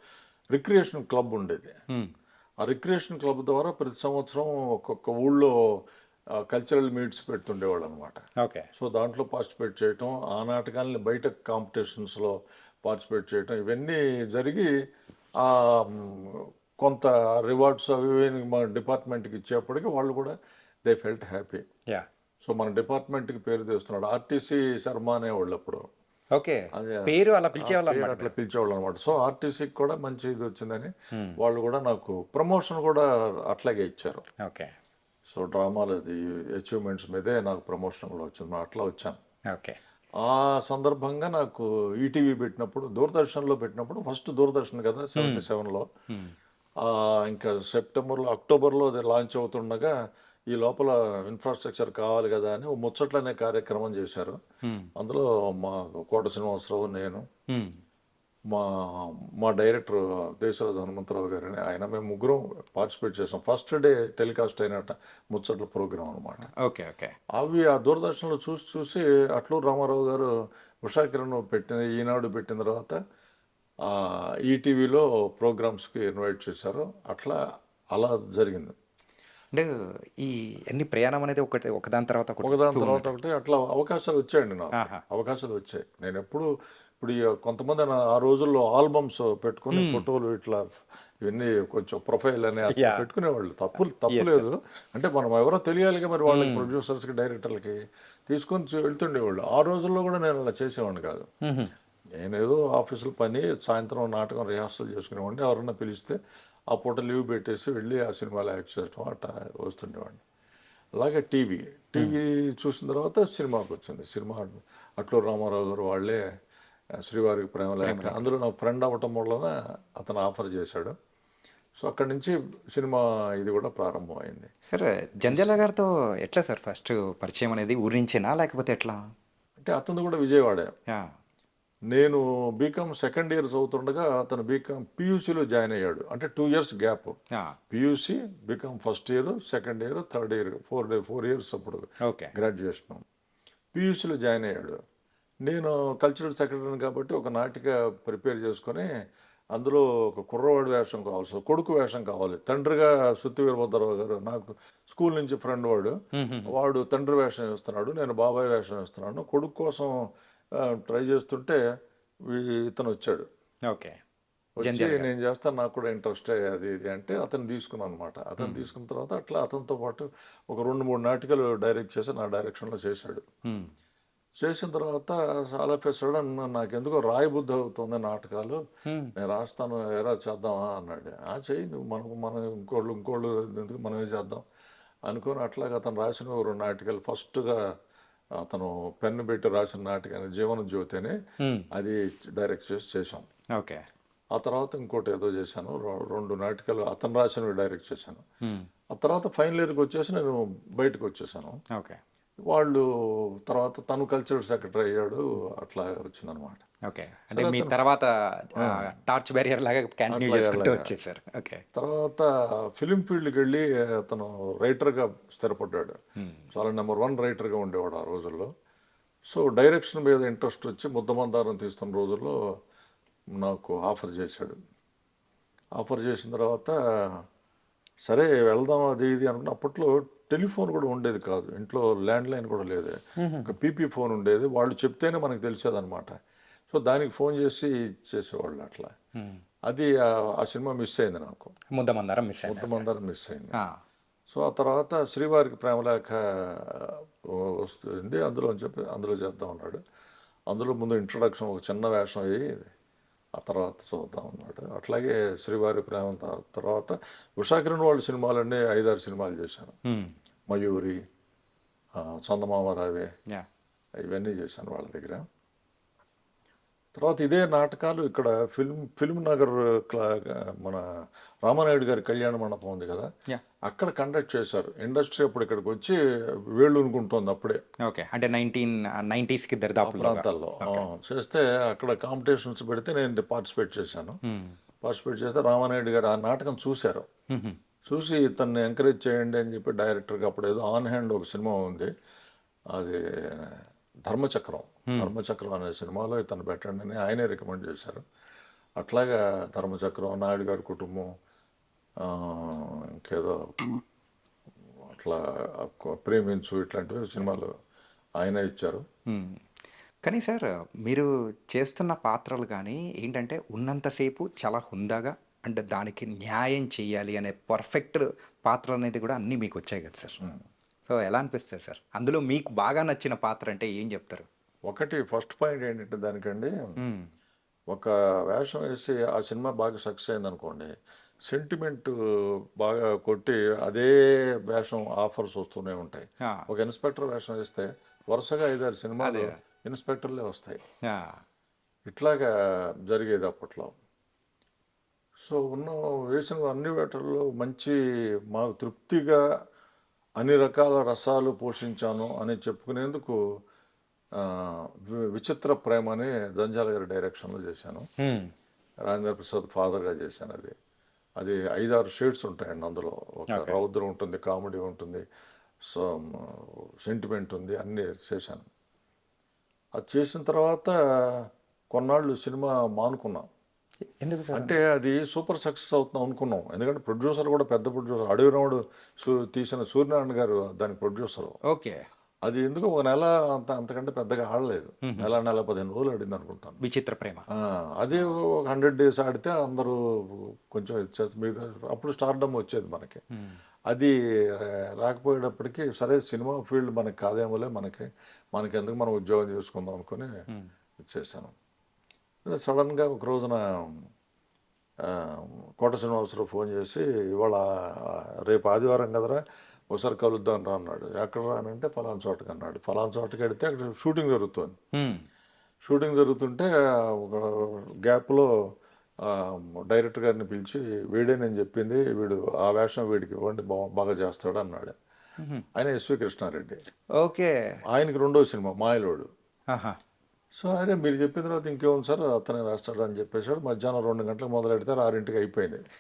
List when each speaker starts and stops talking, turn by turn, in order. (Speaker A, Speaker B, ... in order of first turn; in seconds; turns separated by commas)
Speaker A: 0.5-1.7, Speaker A: 2.6-5.8, Speaker A: 6.4-8.2, Speaker A: 8.8-14.7, Speaker A: 15.4-20.4, Speaker A: 20.9-21.6, Speaker A: 22.4-25.8, Speaker B: 26.4-28.3, Speaker A: 26.7-34.2, Speaker B: 34.5-34.7, Speaker A: 35.3-39.2, Speaker B: 39.5-39.8, Speaker A: 40.2-45.9, Speaker B: 45.2-45.5, Speaker A: 46.8-49.9, Speaker A: 50.5-54.4, Speaker A: 55.0-57.2, Speaker B: 57.5-57.8, Speaker A: 58.5-66.4, Speaker B: 66.5-67.1, Speaker A: 67.3-70.3, Speaker A: 70.8-73.0, Speaker A: 73.8-77.4, Speaker A: 77.9-78.8, Speaker B: 80.2-83.1, Speaker A: 82.4-86.5, Speaker A: 87.0-90.6, Speaker B: 89.7-90.1, Speaker A: 91.2-97.8, Speaker B: 92.7-93.0, Speaker B: 94.1-94.5, Speaker B: 96.3-96.7, Speaker A: 98.3-101.3, Speaker B: 101.5-101.7, Speaker A: 102.2-106.2, Speaker A: 106.7-110.2, Speaker A: 111.0-116.2, Speaker A: 117.0-121.0, Speaker B: 117.8-118.2, Speaker A: 121.8-124.5, Speaker B: 124.7-129.0, Speaker A: 129.6-130.7, Speaker A: 131.9-137.2, Speaker A: 137.7-143.0, Speaker B: 142.1-142.3, Speaker A: 143.7-144.8, Speaker A: 145.4-148.9, Speaker A: 149.6-155.9, Speaker B: 156.2-156.5, Speaker A: 156.5-160.0, Speaker A: 160.6-161.6, Speaker A: 162.3-163.2, Speaker A: 164.6-173.2, Speaker B: 164.6-165.1, Speaker B: 168.4-168.7, Speaker A: 174.4-178.6, Speaker B: 178.9-179.1, Speaker A: 179.2-184.4, Speaker A: 185.1-187.6, Speaker A: 188.4-191.2, Speaker A: 191.7-193.3, Speaker A: 194.3-198.2, Speaker A: 198.9-201.6, Speaker A: 202.5-206.6, Speaker B: 206.9-211.6, Speaker A: 207.3-207.7, Speaker A: 210.1-210.9, Speaker A: 211.7-216.0, Speaker B: 216.2-216.5, Speaker A: 216.5-218.5, Speaker A: 219.3-222.3, Speaker A: 223.3-224.6, Speaker A: 225.8-227.2, Speaker A: 228.0-236.2, Speaker B: 233.2-233.6, Speaker A: 236.7-238.9, Speaker A: 239.7-241.5, Speaker B: 241.8-242.8, Speaker A: 242.5-243.6, Speaker A: 244.3-249.8, Speaker A: 250.5-252.7, Speaker A: 253.4-259.8, Speaker B: 259.9-260.1, Speaker A: 260.5-261.0, Speaker A: 262.0-263.1, Speaker A: 264.0-265.2, Speaker A: 266.9-270.9, Speaker A: 271.5-273.1, Speaker A: 273.7-276.0, Speaker A: 276.5-277.6, Speaker B: 277.9-280.9, Speaker A: 279.8-284.2, Speaker A: 284.8-287.1, Speaker A: 287.9-291.9, Speaker A: 292.7-298.0, Speaker A: 298.8-301.1, Speaker A: 302.0-303.4, Speaker A: 304.9-307.5, Speaker A: 308.2-308.8, Speaker B: 309.1-309.4, Speaker B: 310.1-320.3, Speaker B: 320.9-324.3, Speaker A: 324.7-326.5, Speaker B: 326.8-327.1, Speaker A: 327.7-330.7, Speaker A: 331.3-340.6, Speaker B: 339.0-339.4, Speaker B: 340.9-341.2, Speaker A: 341.9-343.7, Speaker A: 345.2-347.8, Speaker A: 348.3-349.2, Speaker A: 350.2-353.2, Speaker A: 354.2-357.8, Speaker B: 358.0-358.3, Speaker A: 358.9-360.5, Speaker A: 361.2-365.1, Speaker B: 363.3-363.6, Speaker A: 365.7-368.5, Speaker A: 369.8-373.3, Speaker B: 374.0-374.6, Speaker A: 374.4-381.4, Speaker B: 381.5-381.9, Speaker A: 382.3-386.6, Speaker B: 386.6-387.3, Speaker A: 387.3-393.0, Speaker A: 393.7-400.1, Speaker A: 400.8-401.3, Speaker A: 402.3-403.9, Speaker A: 404.8-414.6, Speaker B: 414.8-415.0, Speaker A: 415.6-418.3, Speaker A: 419.0-424.7, Speaker A: 425.6-426.6, Speaker B: 427.0-427.3, Speaker A: 427.7-429.1, Speaker B: 429.5-429.8, Speaker A: 430.3-435.6